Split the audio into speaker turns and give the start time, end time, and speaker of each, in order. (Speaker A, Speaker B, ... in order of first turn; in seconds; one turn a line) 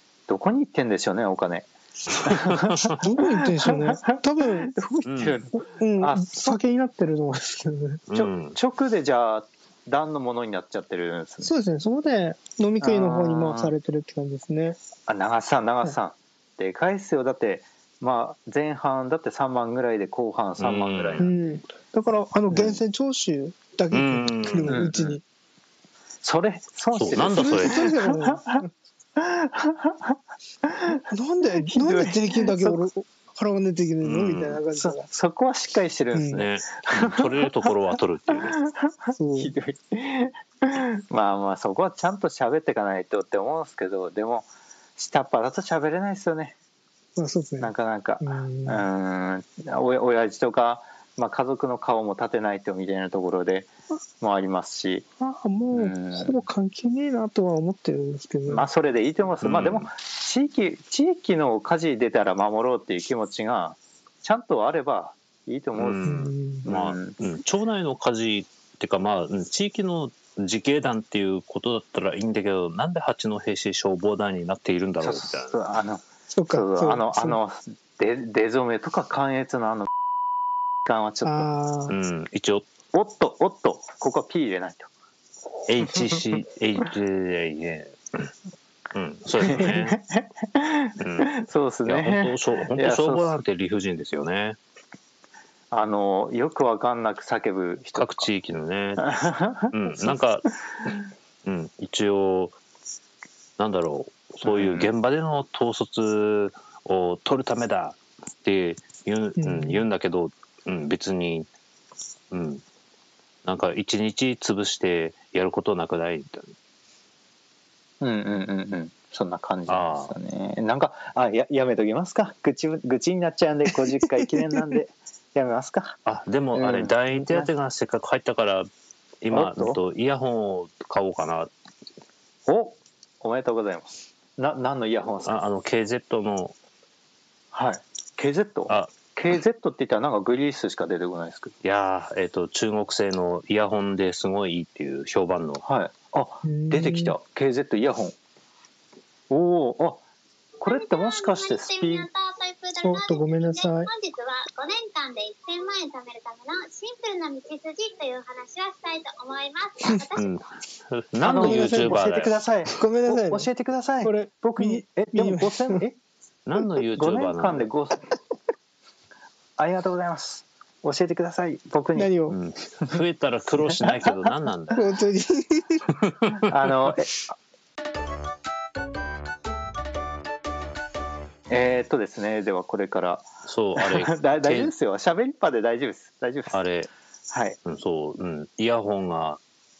Speaker A: 0.3-6.6
Speaker B: 2.9-4.7
Speaker C: 5.0-5.4
Speaker B: 5.6-8.0
Speaker C: 8.1-8.6
Speaker A: 8.1-11.5
Speaker B: 11.4-14.8
Speaker A: 12.8-13.7
Speaker A: 15.1-21.3
Speaker C: 20.6-21.3
Speaker B: 21.2-25.2
Speaker C: 23.9-24.9
Speaker A: 24.7-25.2
Speaker A: 26.2-28.6
Speaker C: 26.9-27.9
Speaker B: 27.3-28.7
Speaker A: 29.2-31.0
Speaker B: 31.1-35.1
Speaker A: 31.6-32.8
Speaker C: 34.0-34.6
Speaker A: 34.7-37.7
Speaker B: 36.1-36.4
Speaker C: 36.3-38.6
Speaker A: 38.3-46.5
Speaker B: 39.1-39.5
Speaker B: 47.1-48.9
Speaker A: 47.6-53.7
Speaker A: 54.2-55.0
Speaker B: 55.2-58.7
Speaker A: 55.7-56.4
Speaker A: 58.5-67.2
Speaker C: 59.4-59.9
Speaker C: 65.8-75.5
Speaker B: 66.0-66.7
Speaker A: 75.0-79.9
Speaker B: 76.3-77.4
Speaker A: 80.8-81.5
Speaker B: 81.2-82.0
Speaker C: 81.9-82.7
Speaker A: 82.9-84.9
Speaker C: 85.7-88.3
Speaker C: 88.9-90.0
Speaker A: 89.4-93.4
Speaker C: 91.0-94.6
Speaker A: 95.7-98.3
Speaker C: 98.0-99.1
Speaker A: 99.0-100.2
Speaker C: 99.7-100.5
Speaker C: 101.4-102.5
Speaker C: 103.6-111.5
Speaker A: 104.4-104.9
Speaker B: 109.4-109.8
Speaker C: 112.3-112.6
Speaker C: 113.4-116.5
Speaker A: 118.0-126.0
Speaker C: 119.7-120.1
Speaker C: 126.0-128.7
Speaker A: 126.5-127.5
Speaker C: 129.2-131.5
Speaker A: 129.3-129.8
Speaker A: 132.5-135.4
Speaker C: 135.2-136.5
Speaker A: 137.5-141.5
Speaker C: 141.6-145.6
Speaker A: 145.6-148.1
Speaker B: 146.4-147.1
Speaker A: 149.3-150.0
Speaker A: 150.6-152.1
Speaker D: 150.6-160.3
Speaker B: 152.8-153.9
Speaker C: 160.2-162.4
Speaker A: 161.2-166.0
Speaker B: 161.2-163.5
Speaker B: 164.0-165.8
Speaker C: 166.4-167.7
Speaker A: 166.9-168.1
Speaker A: 169.6-172.1
Speaker B: 171.9-172.4
Speaker C: 172.3-174.8
Speaker A: 173.7-174.2
Speaker B: 174.7-175.8
Speaker C: 176.0-176.4
Speaker A: 176.4-177.3
Speaker A: 181.5-186.6
Speaker C: 183.4-184.7
Speaker C: 186.5-186.9
Speaker A: 187.3-187.6
Speaker C: 187.6-189.4